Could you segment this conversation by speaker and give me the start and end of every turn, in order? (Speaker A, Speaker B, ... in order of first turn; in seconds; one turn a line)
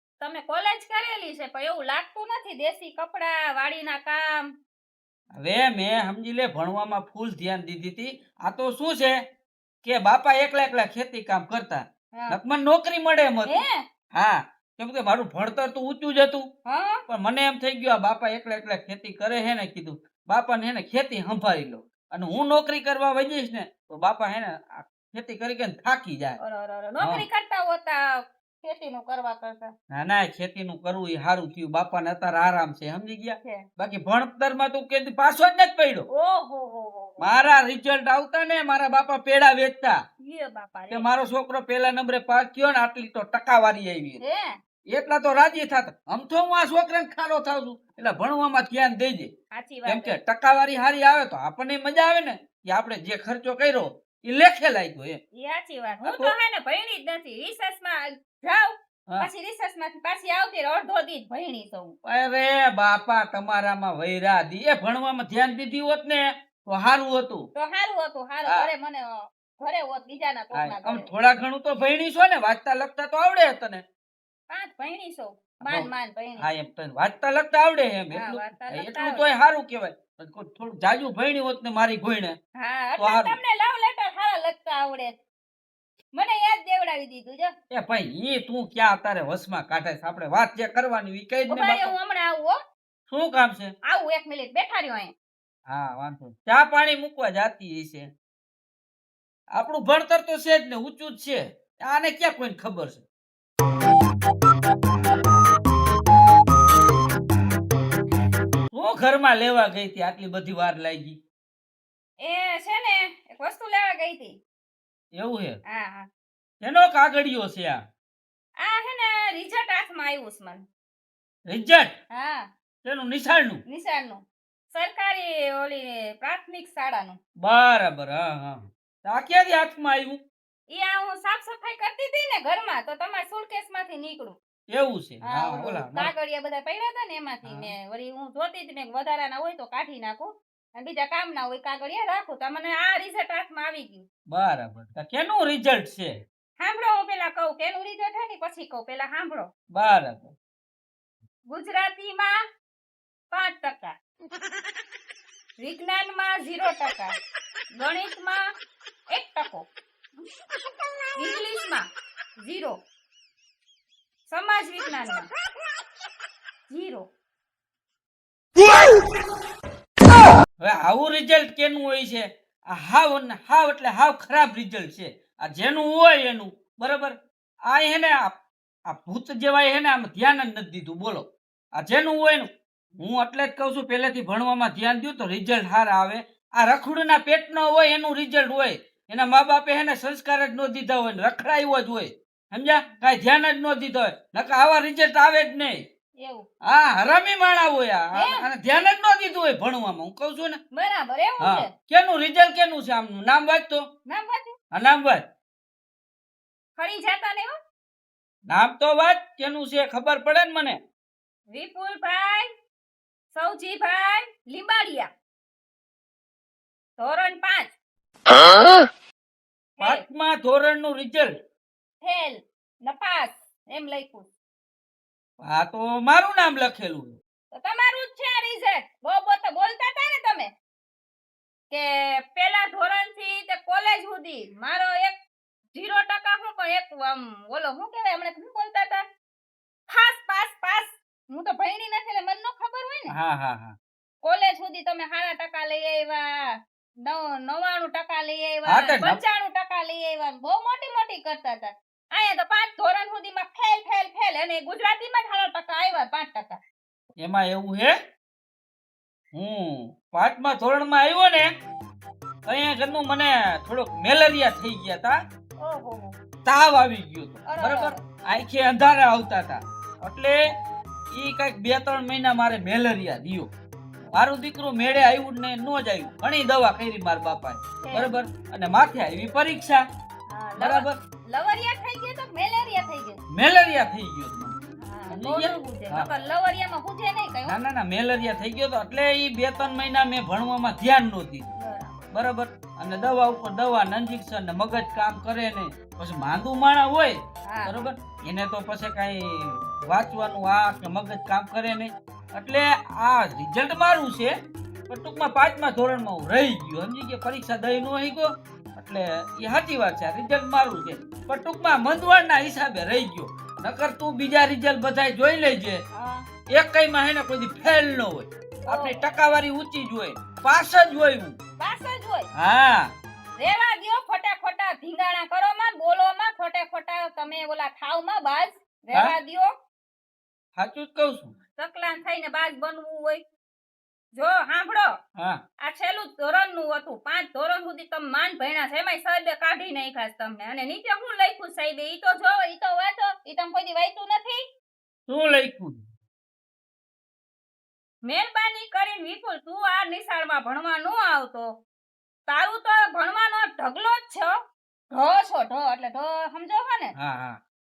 Speaker A: 0.2-4.5
Speaker B: 5.4-9.2
Speaker B: 9.8-13.6
Speaker A: 12.1-12.4
Speaker A: 13.4-13.8
Speaker B: 14.2-16.5
Speaker A: 16.7-17.0
Speaker B: 17.1-26.4
Speaker A: 26.4-29.7
Speaker B: 29.9-36.1
Speaker A: 36.1-37.5
Speaker B: 37.2-40.0
Speaker A: 40.2-41.1
Speaker B: 40.9-44.2
Speaker A: 44.2-44.6
Speaker B: 44.9-49.3
Speaker A: 49.5-50.2
Speaker B: 49.9-55.2
Speaker A: 55.4-62.0
Speaker B: 56.0-56.4
Speaker B: 62.0-67.5
Speaker A: 67.5-71.1
Speaker B: 70.5-73.8
Speaker A: 74.5-76.5
Speaker B: 76.4-82.4
Speaker A: 78.1-79.3
Speaker A: 82.6-85.2
Speaker B: 83.0-83.4
Speaker A: 86.1-87.5
Speaker B: 87.7-91.9
Speaker A: 91.5-92.6
Speaker B: 93.1-93.7
Speaker A: 93.9-95.1
Speaker B: 95.7-98.1
Speaker B: 99.6-103.0
Speaker B: 108.7-111.2
Speaker A: 112.2-114.4
Speaker B: 115.2-115.6
Speaker A: 115.7-116.1
Speaker B: 116.6-117.8
Speaker A: 118.6-120.7
Speaker B: 121.5-121.9
Speaker A: 122.1-122.5
Speaker B: 122.8-123.6
Speaker A: 123.7-127.2
Speaker B: 127.4-130.2
Speaker A: 130.7-134.4
Speaker B: 134.7-136.1
Speaker A: 135.3-144.1
Speaker B: 137.4-137.7
Speaker B: 144.3-146.1
Speaker A: 146.6-149.5
Speaker B: 149.7-150.3
Speaker A: 151.5-152.3
Speaker A: 153.3-153.9
Speaker A: 155.6-157.1
Speaker A: 157.8-158.4
Speaker A: 159.1-159.7
Speaker A: 161.2-161.9
Speaker A: 162.4-162.8
Speaker A: 164.3-165.3
Speaker A: 166.7-167.1
Speaker B: 170.6-177.2
Speaker B: 177.7-178.3
Speaker B: 178.9-181.2
Speaker B: 181.8-182.5
Speaker B: 183.0-195.8
Speaker A: 196.2-196.5
Speaker B: 196.7-200.6
Speaker A: 198.1-198.5
Speaker A: 200.7-201.7
Speaker B: 201.4-203.8
Speaker A: 204.1-204.5
Speaker B: 204.7-205.2
Speaker A: 206.8-207.5
Speaker B: 208.5-210.8
Speaker A: 211.5-212.5
Speaker A: 213.3-215.1
Speaker A: 217.0-217.7
Speaker B: 219.8-221.3
Speaker A: 222.0-224.3
Speaker B: 225.4-227.2
Speaker A: 227.5-230.5
Speaker A: 231.7-235.2
Speaker A: 235.7-239.0
Speaker A: 239.9-243.2
Speaker B: 243.1-243.8
Speaker A: 244.2-256.6
Speaker B: 248.7-249.2
Speaker B: 257.2-257.9
Speaker B: 259.3-261.5
Speaker B: 262.5-265.2
Speaker A: 265.6-266.1
Speaker B: 266.4-270.4
Speaker A: 267.5-268.0
Speaker B: 271.1-273.5
Speaker B: 274.1-279.8
Speaker A: 277.8-278.1
Speaker A: 280.3-283.2
Speaker B: 280.6-281.0
Speaker B: 283.3-284.6
Speaker A: 284.8-287.6
Speaker B: 285.1-286.1
Speaker B: 287.5-291.5
Speaker A: 291.6-292.0
Speaker B: 292.1-304.3
Speaker A: 297.5-297.9
Speaker B: 304.9-315.8
Speaker A: 315.9-316.3
Speaker B: 316.5-321.4
Speaker A: 318.7-319.1
Speaker A: 321.6-322.3
Speaker B: 322.4-322.9
Speaker A: 323.4-329.5
Speaker B: 330.6-331.3
Speaker A: 331.6-333.2
Speaker A: 334.1-334.9
Speaker A: 335.6-344.4
Speaker B: 345.1-345.8
Speaker A: 348.0-351.5
Speaker A: 352.3-354.3
Speaker A: 354.9-356.9
Speaker B: 357.0-357.4